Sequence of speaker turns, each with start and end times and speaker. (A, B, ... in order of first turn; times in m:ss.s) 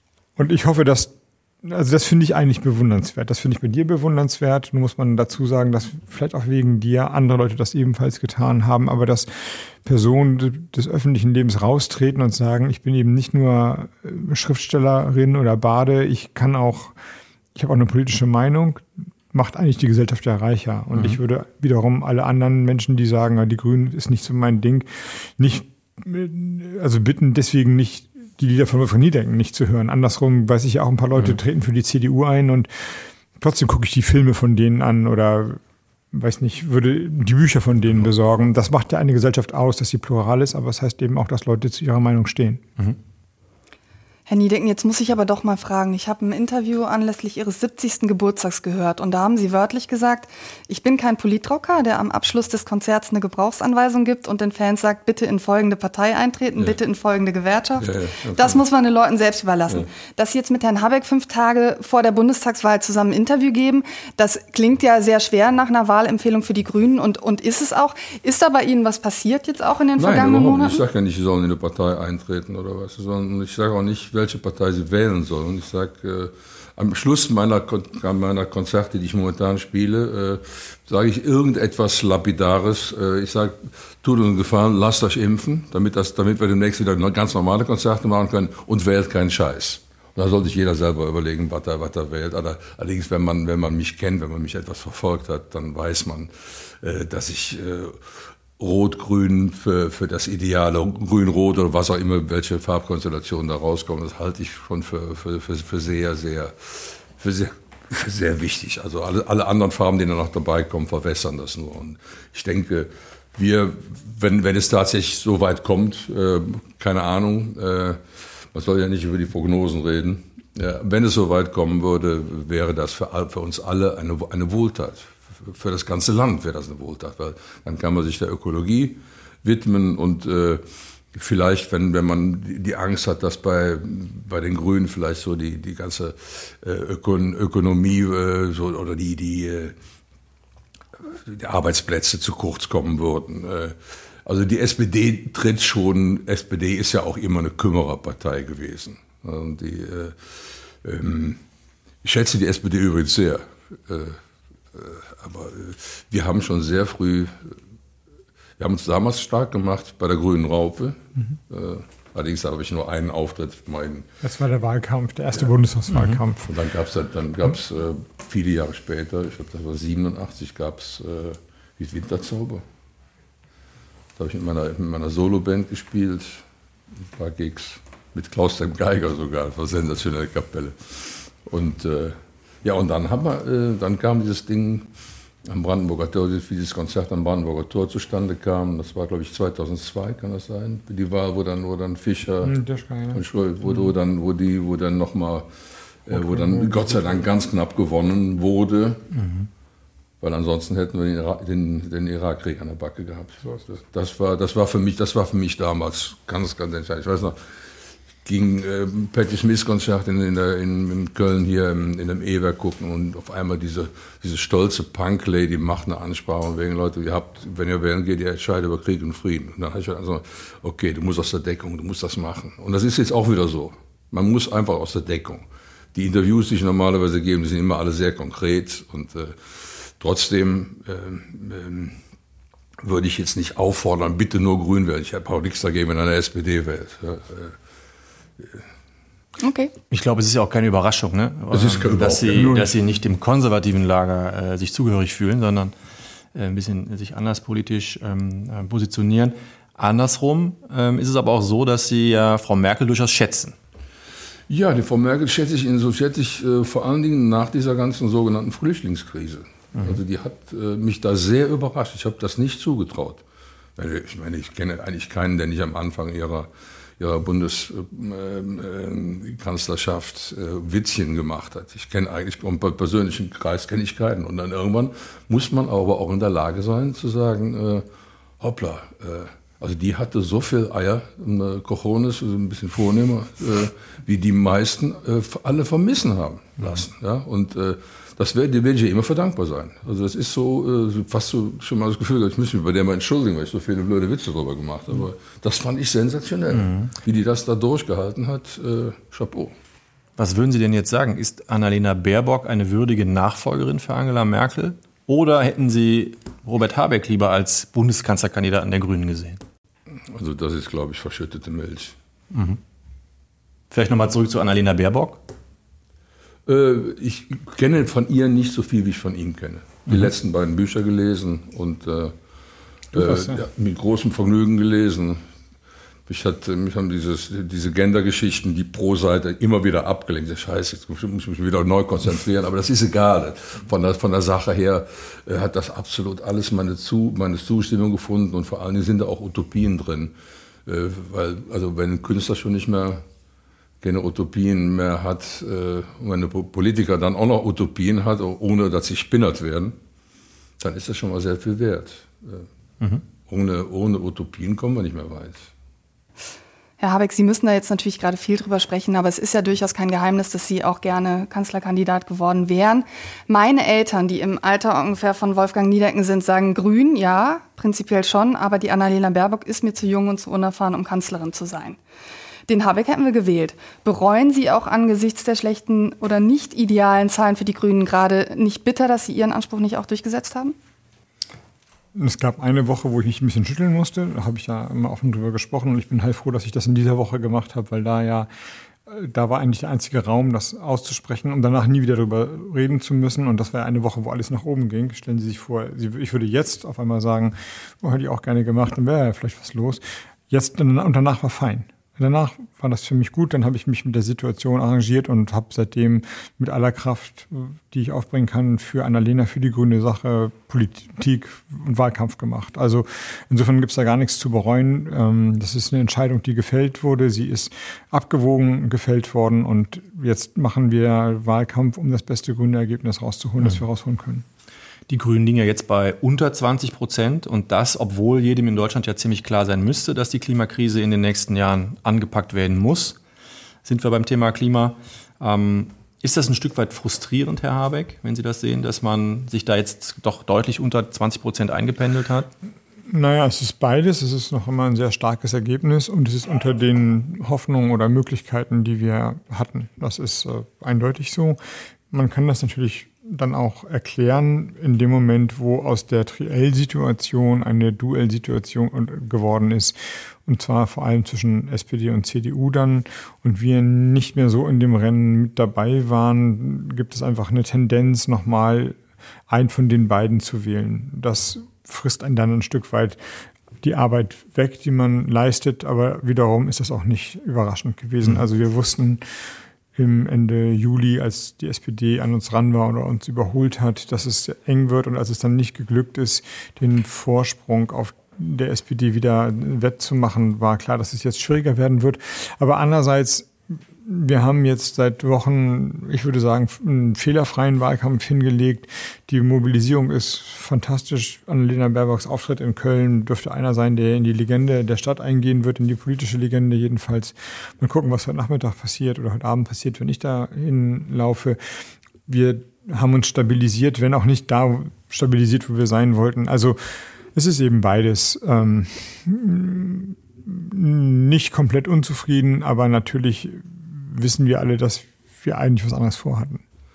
0:00.4-0:17.0 A
0:17.6-0:35.6 A
0:36.1-0:42.6 A
0:44.3-1:10.8 B
0:57.8-0:58.6 C
1:10.0-1:38.1 C
1:38.6-1:58.0 C
1:58.5-2:19.7 C
2:21.1-2:31.4 C
2:32.0-2:34.2 C
2:34.7-2:37.5 C
2:38.6-2:44.1 C
2:44.2-2:46.5 A
2:46.4-2:52.6 C
2:54.2-2:56.4 C
2:57.0-3:04.9 C
3:05.5-3:12.5 C
3:12.4-3:13.2 A
3:13.1-3:15.5 C
3:16.0-3:19.1 C
3:16.1-3:17.2 A
3:19.2-3:19.5 D
3:20.2-3:27.4 C
3:28.2-3:52.0 C
3:52.8-3:57.6 C
3:59.4-3:59.7 B
3:59.9-4:05.7 D
4:01.5-4:02.7 C
4:06.3-4:13.6 D
4:14.5-4:23.2 C
4:23.8-4:37.9 C
4:38.4-4:59.5 C
5:00.2-5:09.4 D
5:10.1-5:12.0 C
5:12.3-5:12.6 D
5:13.7-5:15.2 D
5:16.5-5:22.2 C
5:22.9-5:23.4 A
5:22.9-5:25.2 C
5:26.1-5:40.1 C
5:40.7-5:43.0 C
5:43.8-5:49.8 C
5:50.6-5:52.5 C
5:53.3-5:55.5 C
5:56.8-6:11.8 B
6:12.5-6:20.6 B
6:22.0-6:28.3 A
6:28.9-7:04.2 A
7:04.9-7:13.0 D
7:13.6-7:22.3 D
7:22.9-7:31.4 A
7:31.9-7:53.0 A
7:53.6-7:59.0 A
7:59.8-8:31.4 A
8:32.1-8:46.4 A